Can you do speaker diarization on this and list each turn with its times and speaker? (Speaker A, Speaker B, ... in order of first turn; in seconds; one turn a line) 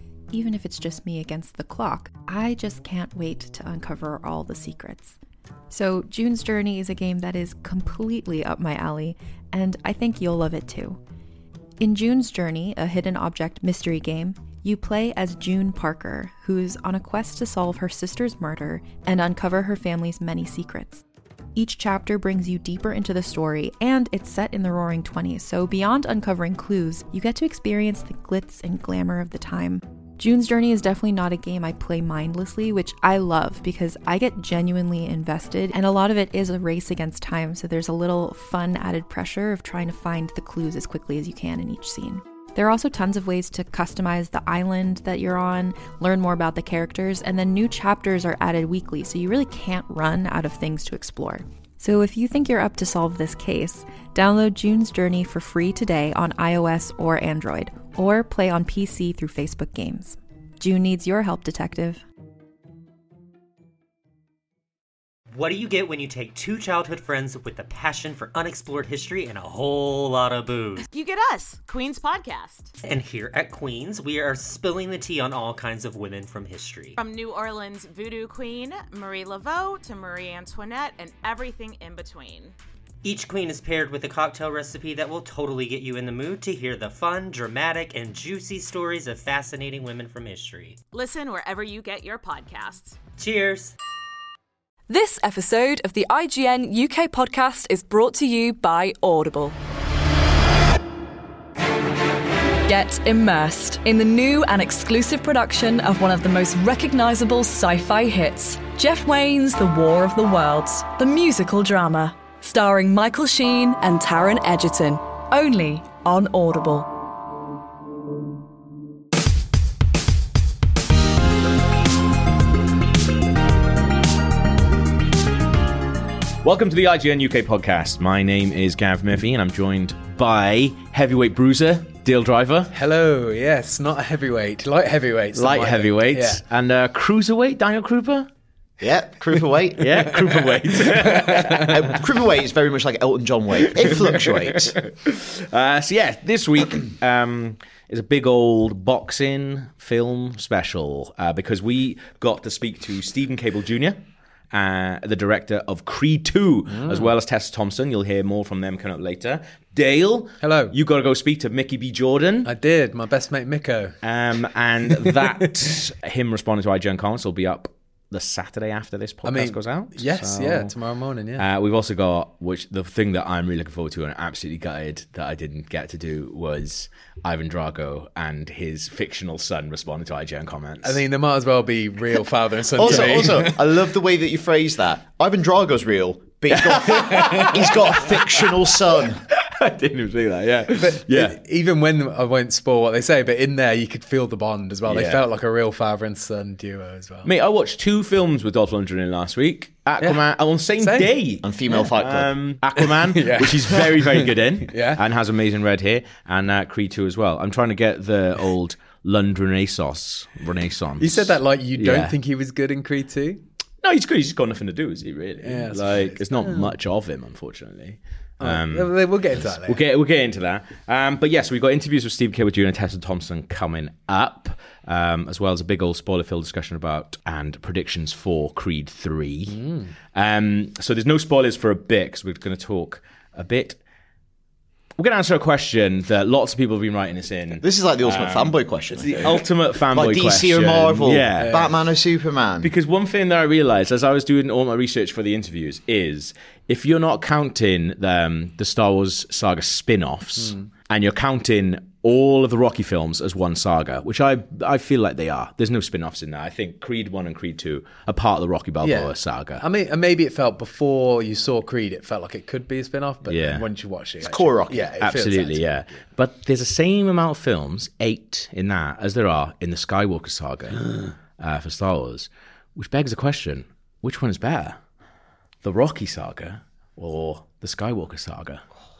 Speaker A: 0.3-5.2
Speaker A: 5.7-11.0
Speaker A: 11.8-21.0
Speaker A: 21.5-62.0
Speaker B: 65.3-70.9
Speaker C: 70.9-72.7
Speaker B: 72.8-77.0
Speaker C: 77.0-82.5
Speaker B: 83.0-90.8
Speaker C: 90.9-93.0
Speaker B: 93.2-93.7
Speaker D: 94.9-99.6
Speaker D: 102.7-116.9
Speaker E: 126.4-132.7
Speaker F: 132.7-136.4
Speaker E: 135.3-138.3
Speaker G: 138.8-140.1
Speaker E: 139.8-141.8
Speaker F: 140.8-141.7
Speaker G: 141.4-144.8
Speaker E: 143.9-154.0
Speaker E: 154.5-162.5
Speaker F: 156.7-157.1
Speaker F: 160.4-160.7
Speaker F: 162.4-164.0
Speaker E: 164.0-170.7
Speaker F: 169.2-171.4
Speaker E: 171.4-181.0
Speaker F: 180.8-183.7
Speaker G: 182.8-189.2
Speaker E: 186.5-188.5
Speaker E: 189.4-191.3
Speaker F: 190.7-197.3
Speaker E: 194.9-195.2
Speaker E: 197.2-212.1
Speaker F: 200.8-201.1
Speaker G: 201.4-202.3
Speaker F: 203.0-205.0
Speaker F: 211.0-213.4
Speaker E: 213.8-229.6
Speaker F: 215.4-216.7
Speaker F: 218.4-219.8
Speaker F: 229.5-229.9
Speaker E: 230.1-233.8
Speaker E: 235.0-241.6
Speaker G: 237.6-242.7
Speaker F: 241.4-241.7
Speaker E: 242.6-259.6
Speaker F: 250.4-250.7
Speaker F: 258.8-265.6
Speaker E: 263.2-263.6
Speaker G: 264.2-264.9
Speaker E: 265.0-274.8
Speaker E: 275.6-278.6